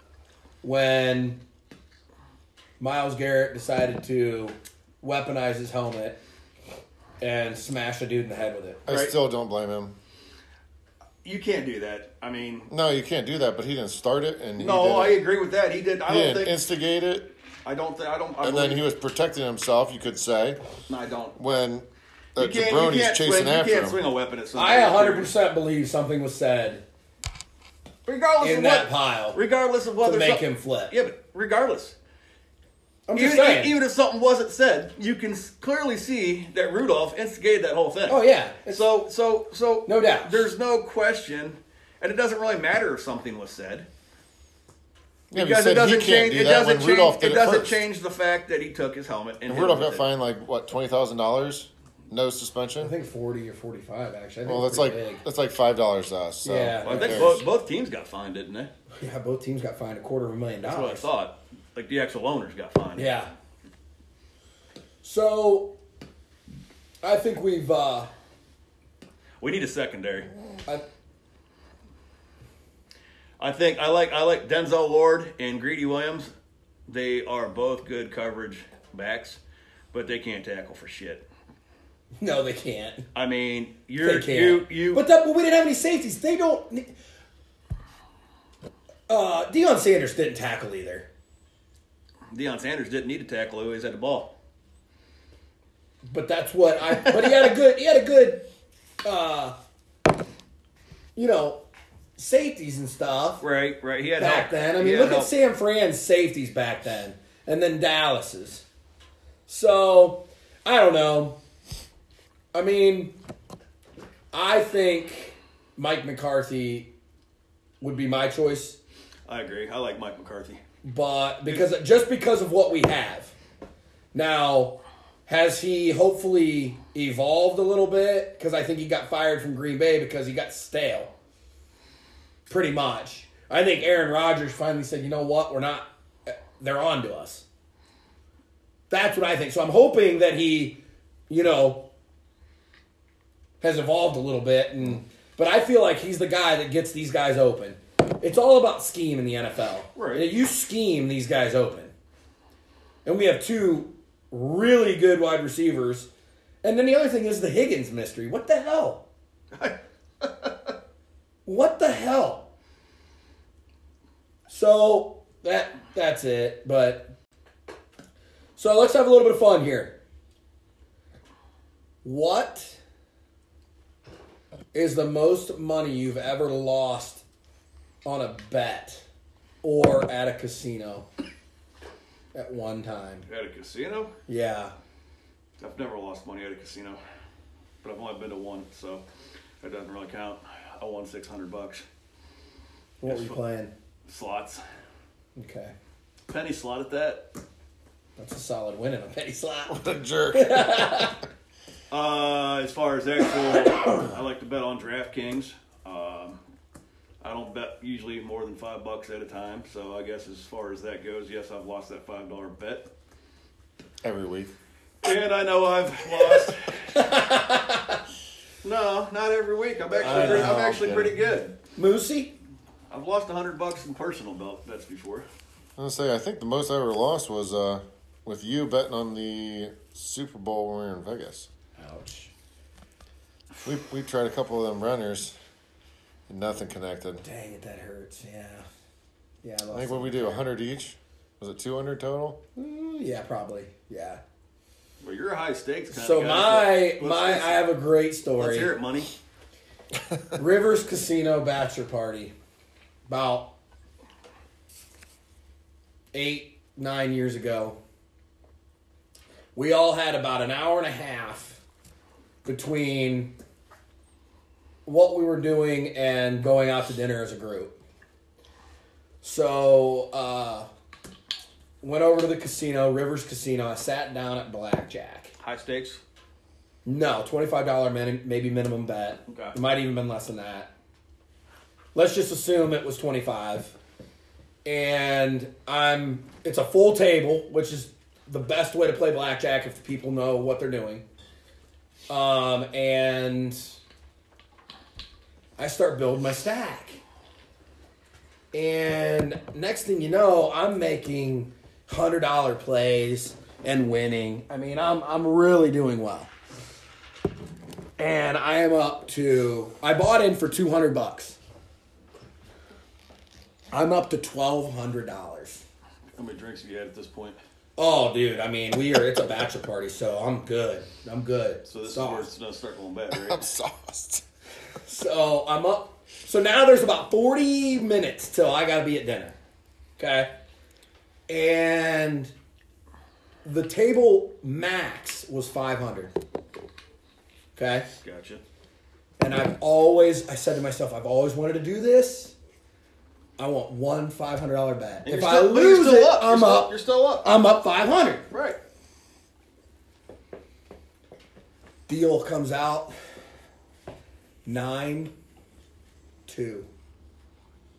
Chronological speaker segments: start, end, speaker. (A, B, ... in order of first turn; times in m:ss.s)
0:00.6-0:01.4 A
0:02.8-0:06.2 A
0:07.2-0:08.8 A
0:08.8-0:09.9 B
0:08.9-0:09.1 C
0:11.2-0:12.7 C
0:12.7-0:15.2 B
0:14.6-0:16.6 C
0:16.1-0:17.3 B
0:17.6-0:18.8 C
0:18.4-0:20.6 B
0:20.9-0:21.4 C
0:21.4-0:24.0 B
0:22.4-0:25.3 C
0:24.5-0:26.8 A
0:28.0-0:32.0 C
0:28.4-0:29.4 A
0:30.0-0:30.9 A
0:33.1-0:33.7 A
0:33.2-0:43.9 C
0:38.1-0:38.9 A
0:39.8-0:40.4 A
0:45.3-0:47.8 B
0:45.3-0:50.1 C
0:49.5-0:52.9 B
0:52.8-0:55.2 A
0:54.4-0:57.4 B
0:56.4-0:57.4 A
0:56.8-0:58.7 C
0:59.0-1:01.1 A
1:00.6-1:03.1 C
1:03.0-1:03.3 A
1:05.0-1:05.7 A
1:07.0-1:08.1 A
1:09.4-1:10.3 C
1:13.4-1:16.3 C
1:16.9-1:19.4 C
1:19.9-1:21.2 C
1:22.2-1:23.0 A
1:23.1-1:25.0 C
1:24.0-1:26.9 A
1:29.1-1:31.1 A
1:32.3-1:34.3 C
1:36.0-1:38.4 A
1:36.9-1:37.5 C
1:39.0-1:39.6 A
1:41.2-1:41.6 A
1:42.2-1:43.4 A
1:43.4-1:45.3 C
1:44.2-1:48.6 A
1:49.5-1:51.4 A
1:52.5-1:53.2 A
1:54.3-1:56.9 A
1:57.8-1:58.8 A
1:59.3-2:00.6 C
2:00.8-2:03.3 A
2:04.1-2:11.1 A
2:12.5-2:17.4 A
2:18.9-2:21.9 A
2:23.6-2:31.9 A
2:29.9-2:30.2 C
2:33.0-2:36.1 A
2:36.6-2:39.0 A
2:39.5-2:40.7 C
2:41.4-2:42.5 A
2:44.5-2:47.1 A
2:48.6-2:50.0 A
2:52.0-2:52.8 A
2:54.7-2:57.2 A
2:58.0-2:59.0 A
2:59.6-3:01.1 A
3:02.3-3:03.2 A
3:03.3-3:04.1 C
3:04.3-3:04.7 A
3:05.6-3:07.0 C
3:07.8-3:09.0 C
3:09.6-3:11.8 C
3:13.0-3:13.7 A
3:13.0-3:13.4 C
3:14.0-3:14.6 C
3:15.4-3:15.7 A
3:16.3-3:17.3 C
3:18.2-3:21.2 A
3:19.7-3:21.0 B
3:21.9-3:26.4 C
3:27.2-3:32.9 C
3:34.0-3:34.5 B
3:35.0-3:36.9 C
3:36.9-3:38.0 A
3:38.6-3:41.5 C
3:40.0-3:40.8 A
3:40.1-3:41.1 B
3:41.8-3:42.3 A
3:42.9-3:45.2 C
3:45.8-3:51.5 B
3:51.8-3:52.3 A
3:53.6-3:55.4 B
3:56.3-3:57.2 B
3:57.2-3:58.6 A
3:59.4-4:00.4 A
3:59.7-4:02.4 B
4:02.6-4:04.2 A
4:05.0-4:07.6 C
4:05.9-4:08.7 A
4:08.4-4:09.1 C
4:10.3-4:12.3 A
4:13.1-4:13.5 A
4:16.1-4:17.8 A
4:19.5-4:21.6 A
4:22.4-4:23.3 A
4:24.8-4:27.8 A
4:29.2-4:30.7 A
4:31.8-4:35.3 A
4:35.4-4:36.0 C
4:36.8-4:40.7 A
4:39.3-4:39.5 C
4:41.9-4:43.7 A
4:44.6-4:51.0 A
4:52.1-4:53.8 A
4:55.6-4:57.0 A
4:58.5-5:06.3 A
5:08.0-5:11.4 A
5:13.7-5:15.6 A
5:16.2-5:17.4 C
5:17.8-5:22.3 A
5:21.6-5:23.4 C
5:23.1-5:24.2 B
5:24.8-5:29.4 A
5:30.0-5:30.3 A
5:31.3-5:32.3 A
5:33.4-5:36.1 A
5:37.6-5:37.9 A
5:38.0-5:38.4 C
5:39.2-5:42.3 A
5:43.4-5:48.2 A
5:45.0-5:47.3 C
5:48.3-5:48.6 C
5:51.9-5:52.9 A
5:54.4-5:55.1 A
5:56.3-5:56.7 A